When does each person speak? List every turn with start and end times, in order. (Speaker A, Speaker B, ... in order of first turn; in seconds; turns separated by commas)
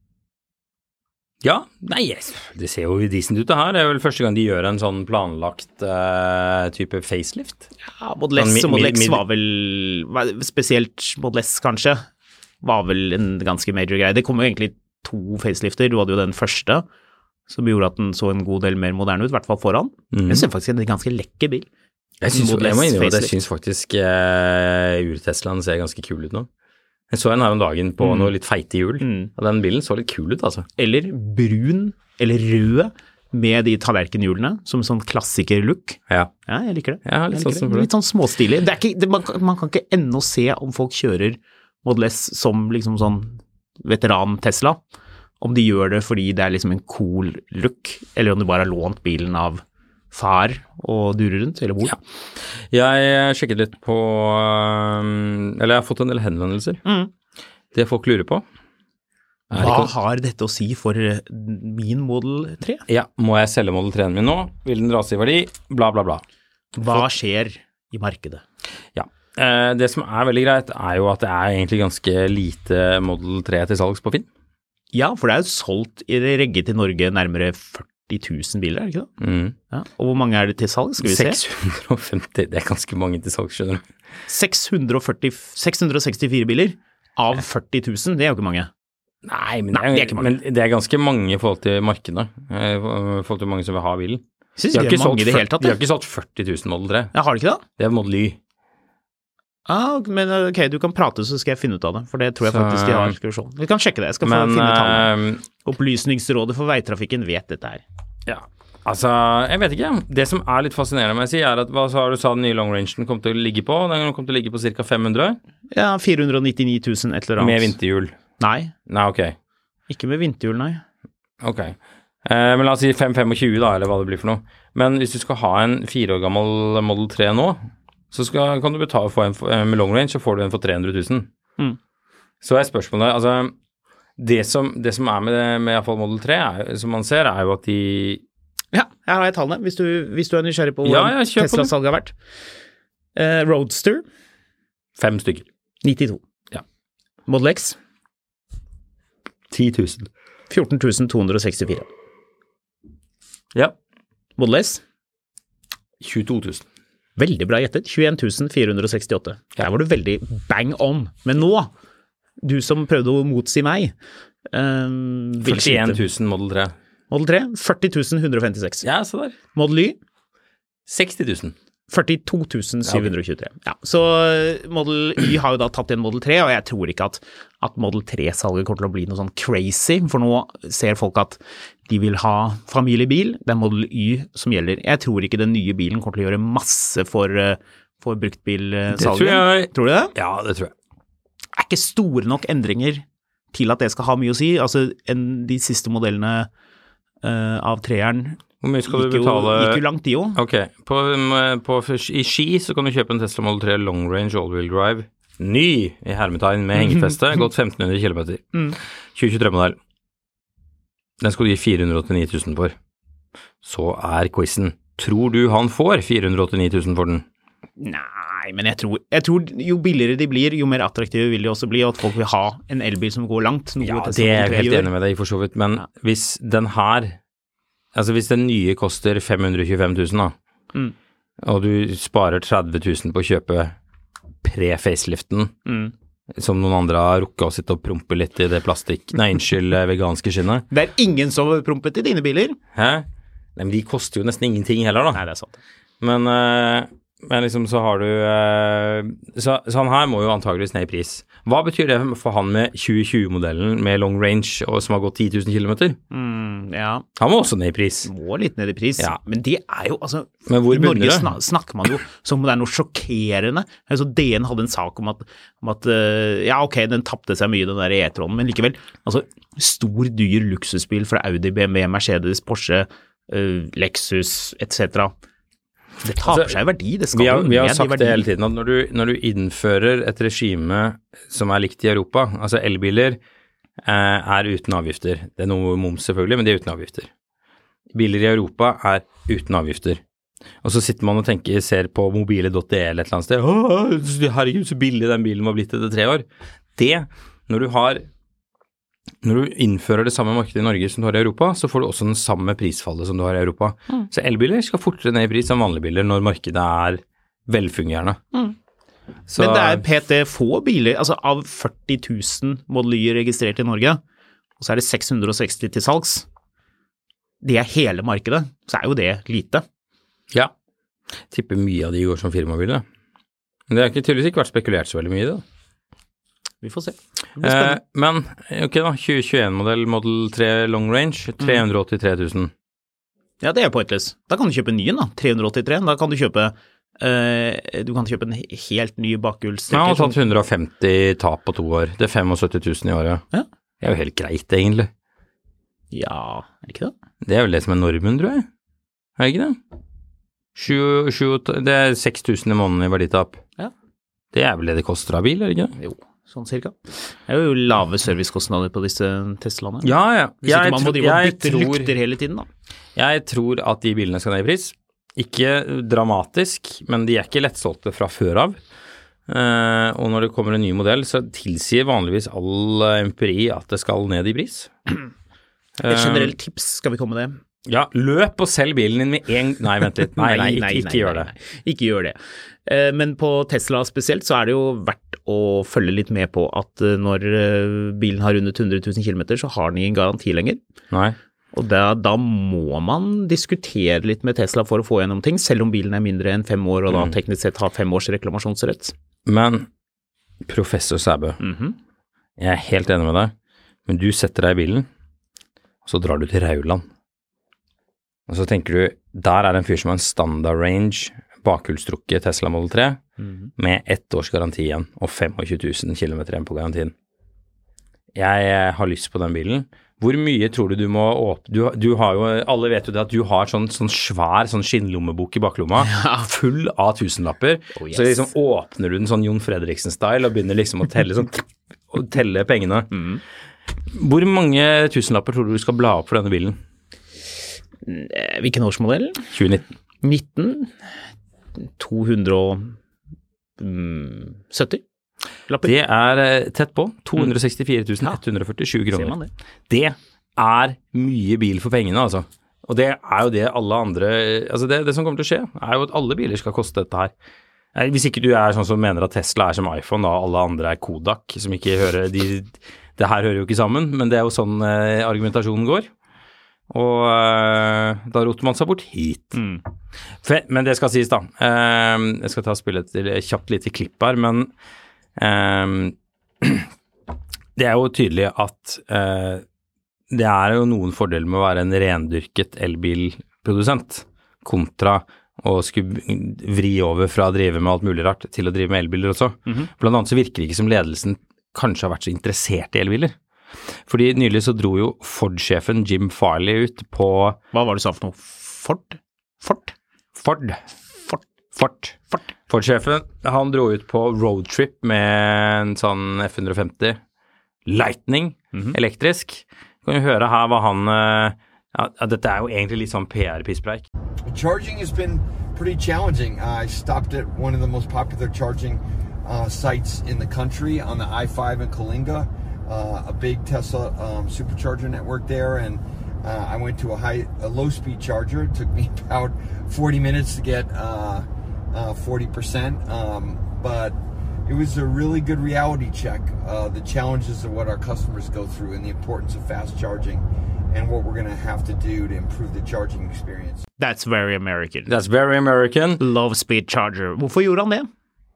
Speaker A: 1.4-7.7, Speaker B: 7.9-12.0, Speaker A: 8.3-9.2, Speaker B: 12.6-16.8, Speaker B: 17.5-21.7, Speaker A: 20.1-20.5, Speaker A: 22.2-26.5, Speaker B: 22.3-23.3, Speaker A: 27.1-30.7, Speaker B: 28.0-28.3, Speaker B: 29.0-29.3, Speaker B: 30.8-44.8, Speaker A: 37.0-37.9, Speaker B: 45.4-52.0, Speaker A: 52.7-56.8, Speaker B: 56.8-57.1, Speaker A: 57.7-58.4, Speaker A: 59.5-59.9, Speaker B: 59.5-62.8, Speaker A: 62.9-66.2, Speaker B: 66.8-68.4, Speaker A: 69.0-74.2, Speaker B: 74.9-79.1, Speaker A: 79.2-79.5, Speaker B: 79.7-81.4, Speaker A: 81.0-83.8, Speaker B: 84.3-88.7, Speaker A: 89.2-97.1, Speaker B: 89.7-90.3, Speaker B: 94.6-95.8, Speaker B: 97.1-97.6, Speaker A: 97.8-98.4, Speaker B: 99.7-105.1, Speaker A: 102.4-103.2, Speaker A: 104.2-105.4, Speaker B: 105.6-107.8, Speaker A: 108.3-115.4, Speaker B: 115.7-117.7, Speaker A: 117.4-118.1, Speaker B: 118.4-118.7, Speaker A: 118.9-119.3, Speaker B: 119.9-120.8, Speaker A: 121.4-127.6, Speaker A: 128.1-131.3, Speaker A: 132.4-133.5, Speaker A: 134.2-138.2, Speaker B: 138.7-142.1, Speaker A: 140.8-141.7, Speaker B: 143.2-144.0, Speaker A: 145.0-145.4, Speaker B: 145.8-146.2, Speaker B: 147.3-147.8, Speaker A: 149.5-150.1, Speaker B: 150.5-151.9, Speaker B: 154.4-154.8, Speaker A: 156.0-156.6, Speaker B: 157.2-161.7, Speaker B: 162.4-163.9, Speaker B: 164.5-166.0, Speaker A: 165.4-166.7, Speaker B: 167.1-168.8, Speaker A: 168.8-169.4, Speaker B: 169.5-170.0, Speaker A: 170.9-171.5, Speaker B: 171.9-190.1, Speaker A: 172.8-173.1, Speaker A: 188.9-190.7, Speaker B: 191.5-196.5, Speaker B: 197.2-200.4, Speaker A: 198.6-199.8, Speaker A: 200.3-208.6, Speaker A: 209.1-209.8, Speaker A: 211.2-212.7, Speaker A: 213.6-217.2, Speaker B: 217.8-224.9, Speaker A: 223.8-227.2, Speaker A: 227.9-230.3, Speaker A: 231.4-233.7, Speaker A: 234.4-235.5, Speaker B: 235.7-235.9, Speaker A: 236.3-240.7, Speaker B: 240.7-242.6, Speaker A: 242.7-243.0, Speaker A: 243.6-245.2, Speaker B: 245.1-245.6, Speaker A: 246.0-256.0, Speaker B: 256.1-257.0, Speaker A: 257.2-258.1, Speaker B: 258.0-275.1, Speaker A: 260.5-261.3, Speaker B: 276.0-278.2, Speaker A: 276.2-276.6, Speaker A: 277.1-283.2, Speaker A: 283.8-287.1, Speaker A: 287.9-290.0, Speaker A: 290.6-296.2, Speaker A: 296.8-298.0, Speaker A: 299.2-308.2, Speaker A: 309.3-309.8, Speaker B: 309.4-314.0, Speaker B: 314.6-316.2, Speaker B: 317.4-319.6, Speaker A: 321.3-322.8, Speaker A: 323.7-325.4, Speaker B: 326.6-327.8, Speaker A: 327.4-332.5, Speaker B: 333.4-340.1, Speaker A: 339.7-343.2, Speaker A: 343.8-344.9, Speaker B: 345.9-346.9, Speaker A: 347.2-348.5, Speaker A: 349.2-349.6, Speaker A: 350.6-353.4, Speaker A: 354.3-355.8, Speaker B: 355.8-359.9, Speaker A: 359.8-361.9, Speaker B: 360.4-362.5, Speaker A: 362.9-368.6, Speaker A: 369.3-374.7, Speaker A: 375.8-376.3, Speaker B: 375.8-377.4, Speaker A: 377.6-381.3, Speaker B: 380.2-390.6, Speaker A: 390.9-391.1, Speaker B: 391.5-398.9, Speaker A: 399.2-399.7, Speaker A: 400.4-401.4, Speaker B: 401.4-401.8, Speaker A: 402.4-403.3, Speaker A: 403.9-404.9, Speaker A: 405.8-406.9, Speaker A: 408.3-413.0, Speaker B: 413.2-413.5, Speaker A: 413.6-416.9, Speaker A: 418.1-432.9, Speaker B: 425.8-426.3, Speaker B: 427.8-428.2, Speaker B: 432.9-433.2, Speaker A: 433.9-436.6, Speaker B: 437.8-439.2, Speaker A: 439.3-439.6, Speaker B: 440.0-440.7, Speaker B: 441.6-442.7, Speaker B: 443.6-444.8, Speaker A: 445.6-449.1, Speaker B: 448.9-449.3, Speaker A: 449.7-457.1, Speaker A: 457.7-465.9, Speaker A: 466.7-469.4, Speaker B: 469.3-469.6, Speaker A: 470.2-474.5, Speaker A: 475.2-476.7, Speaker A: 477.6-479.4, Speaker A: 480.1-493.1, Speaker A: 493.9-497.4, Speaker B: 497.5-499.7, Speaker A: 500.2-500.6, Speaker A: 501.6-502.0, Speaker A: 502.5-507.0, Speaker A: 507.6-513.8, Speaker C: 514.3-543.6, Speaker B: 543.8-544.9, Speaker A: 544.9-546.0, Speaker B: 546.0-547.9